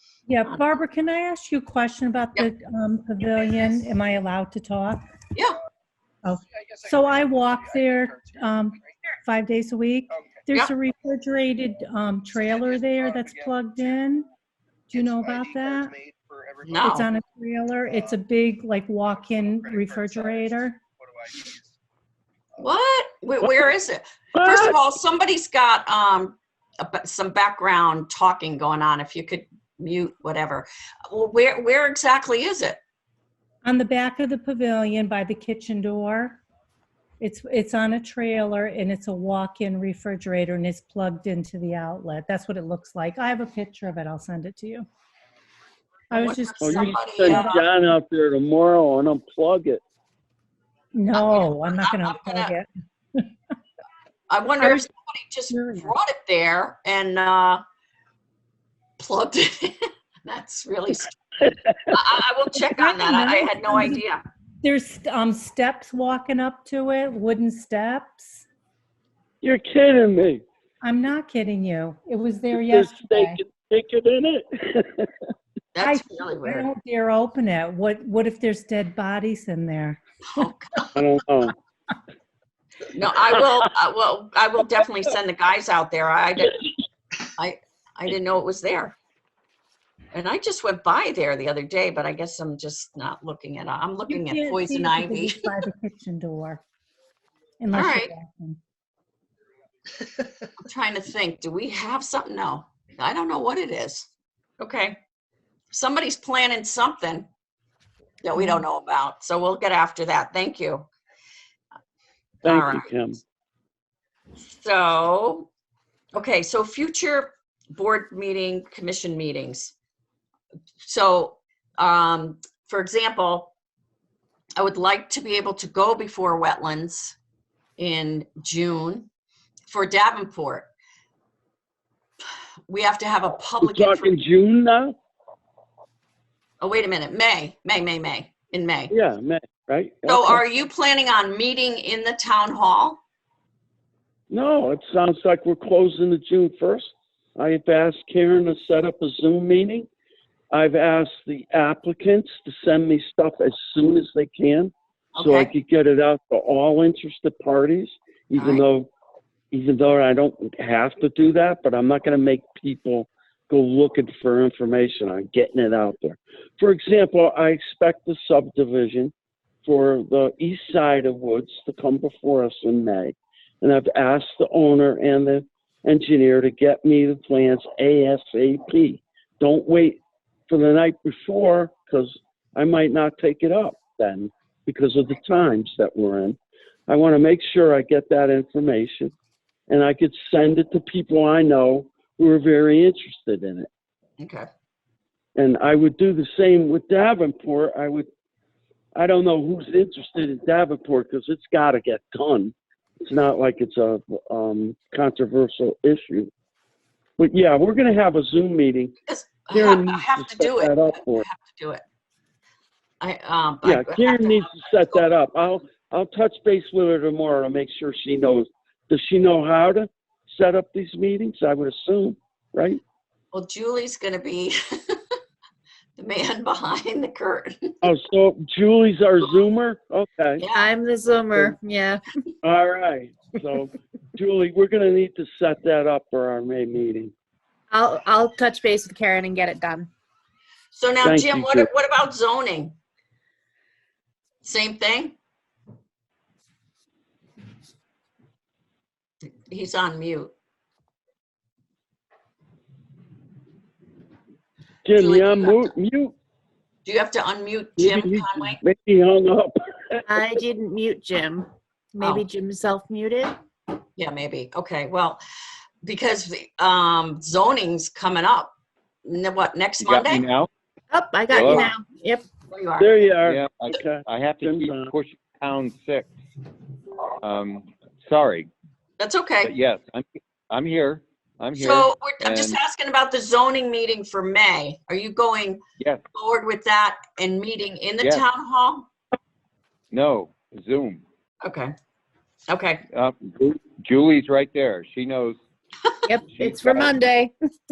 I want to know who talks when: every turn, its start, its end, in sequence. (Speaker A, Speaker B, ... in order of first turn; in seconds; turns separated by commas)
Speaker A: 0.3-5.0, Speaker A: 6.2-14.3, Speaker A: 14.9-15.9, Speaker B: 16.6-17.1, Speaker A: 16.8-20.8, Speaker B: 22.6-32.8, Speaker C: 24.4-24.7, Speaker A: 33.6-36.4, Speaker A: 37.2-44.9, Speaker A: 46.1-47.6, Speaker B: 46.1-47.6, Speaker C: 46.6-49.8, Speaker A: 50.9-53.3, Speaker B: 51.1-52.5, Speaker B: 54.3-57.6, Speaker A: 55.5-55.9, Speaker B: 59.0-61.2, Speaker C: 61.4-62.0, Speaker B: 61.9-64.2, Speaker A: 62.7-64.0, Speaker A: 64.6-68.4, Speaker C: 69.4-70.4, Speaker A: 70.8-73.4, Speaker C: 72.5-75.1, Speaker B: 75.7-76.7, Speaker A: 75.8-80.0, Speaker B: 80.3-80.9, Speaker C: 80.9-81.5, Speaker B: 82.9-86.6, Speaker B: 87.4-88.9, Speaker B: 90.1-95.5, Speaker A: 94.1-96.6, Speaker A: 97.6-98.6, Speaker B: 97.7-98.1, Speaker B: 100.6-104.1, Speaker B: 104.6-105.0, Speaker B: 105.7-107.3, Speaker B: 108.2-110.9, Speaker A: 108.3-108.6, Speaker C: 112.4-113.2, Speaker B: 112.4-112.9, Speaker B: 114.5-115.5, Speaker B: 116.1-119.7, Speaker B: 120.8-123.5, Speaker B: 124.6-127.2, Speaker B: 127.8-129.1, Speaker B: 129.7-130.7, Speaker B: 132.7-134.2, Speaker C: 133.6-134.9, Speaker B: 136.6-138.9, Speaker C: 138.9-140.5, Speaker B: 140.1-143.0, Speaker C: 144.3-149.9, Speaker C: 150.5-158.9, Speaker B: 155.1-155.5, Speaker B: 158.3-158.6, Speaker C: 159.5-169.1, Speaker C: 169.6-189.1, Speaker C: 189.7-193.7, Speaker B: 194.2-194.5, Speaker C: 195.3-198.1, Speaker C: 198.9-206.3, Speaker C: 207.2-208.9, Speaker B: 209.1-211.8, Speaker C: 209.5-211.3, Speaker B: 213.0-215.0, Speaker C: 213.6-222.8, Speaker B: 223.3-225.0, Speaker B: 226.0-227.7, Speaker C: 227.8-230.4, Speaker B: 230.4-230.7, Speaker D: 230.5-232.0, Speaker C: 232.4-237.1, Speaker D: 237.7-239.9, Speaker B: 240.7-242.7, Speaker C: 241.0-241.7, Speaker B: 244.4-245.2, Speaker B: 249.5-250.3, Speaker C: 254.8-256.1, Speaker B: 254.9-255.7, Speaker B: 256.9-258.6, Speaker C: 257.8-260.3, Speaker D: 260.1-263.4, Speaker B: 262.0-262.2, Speaker B: 264.0-265.2, Speaker B: 265.8-268.5, Speaker B: 269.1-270.2, Speaker E: 269.8-270.5, Speaker D: 270.9-272.2, Speaker E: 271.3-271.7, Speaker B: 272.5-272.9, Speaker C: 272.8-274.9, Speaker E: 273.2-276.1, Speaker E: 277.2-278.5, Speaker B: 279.0-279.5, Speaker E: 279.4-282.6, Speaker B: 281.6-285.6, Speaker B: 286.1-288.9, Speaker E: 289.9-291.0, Speaker B: 291.4-291.7, Speaker B: 292.5-292.8, Speaker E: 292.9-295.4, Speaker D: 296.1-297.3, Speaker E: 296.2-297.0